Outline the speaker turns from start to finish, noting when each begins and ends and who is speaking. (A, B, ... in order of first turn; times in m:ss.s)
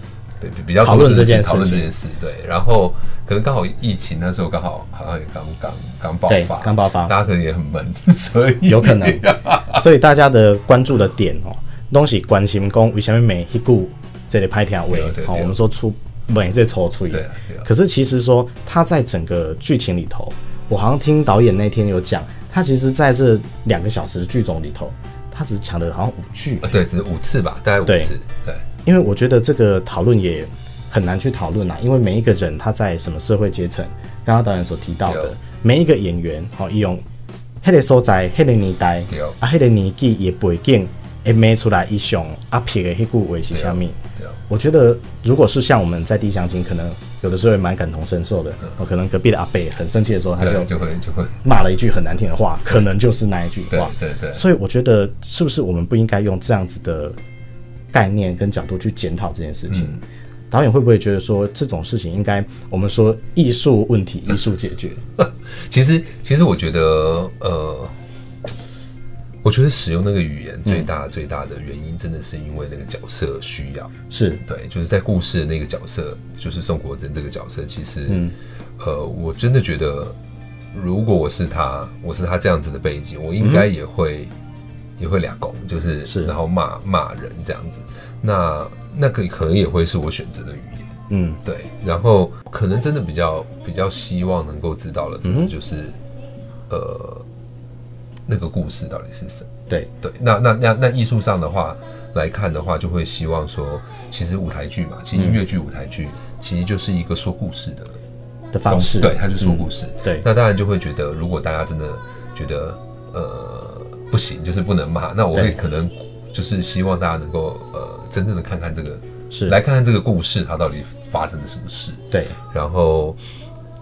0:00.4-0:09.8 A
0:00.8-0:01.9 B
0:06.3-0:07.2 B
0:08.6-0:26.7 B
0:14.9-0:15.6 A
0:17.1-0:17.7 A
0:26.6-0:28.6 A
0:27.9-0:28.1 B
0:28.8-0:37.0 B
0:35.1-0:35.4 A
0:37.6-0:44.0 B
0:39.1-0:39.4 A
0:43.5-0:44.4 A
0:44.5-0:50.7 B
0:50.4-0:51.4 A
0:51.4-0:57.2 B
0:53.7-0:54.4 A
0:57.9-1:00.0 B
0:59.7-1:00.0 A
1:00.5-1:05.0 B
1:05.2-1:08.0 A
1:09.4-1:13.9 A
1:14.1-1:14.4 B
1:14.4-1:20.2 A
1:18.1-1:18.4 B
1:20.7-1:24.3 A
1:23.4-1:23.7 B
1:25.0-1:30.9 A
1:26.1-1:26.3 B
1:31.1-1:31.4 B
1:31.4-1:36.0 A
1:35.2-1:35.5 B
1:36.7-1:37.3 A
1:38.3-1:39.5 A
1:40.0-1:48.0 A
1:45.2-1:45.4 B
1:48.5-1:50.2 B
1:48.7-2:03.2 A
1:59.3-1:59.6 B
2:02.1-2:02.4 B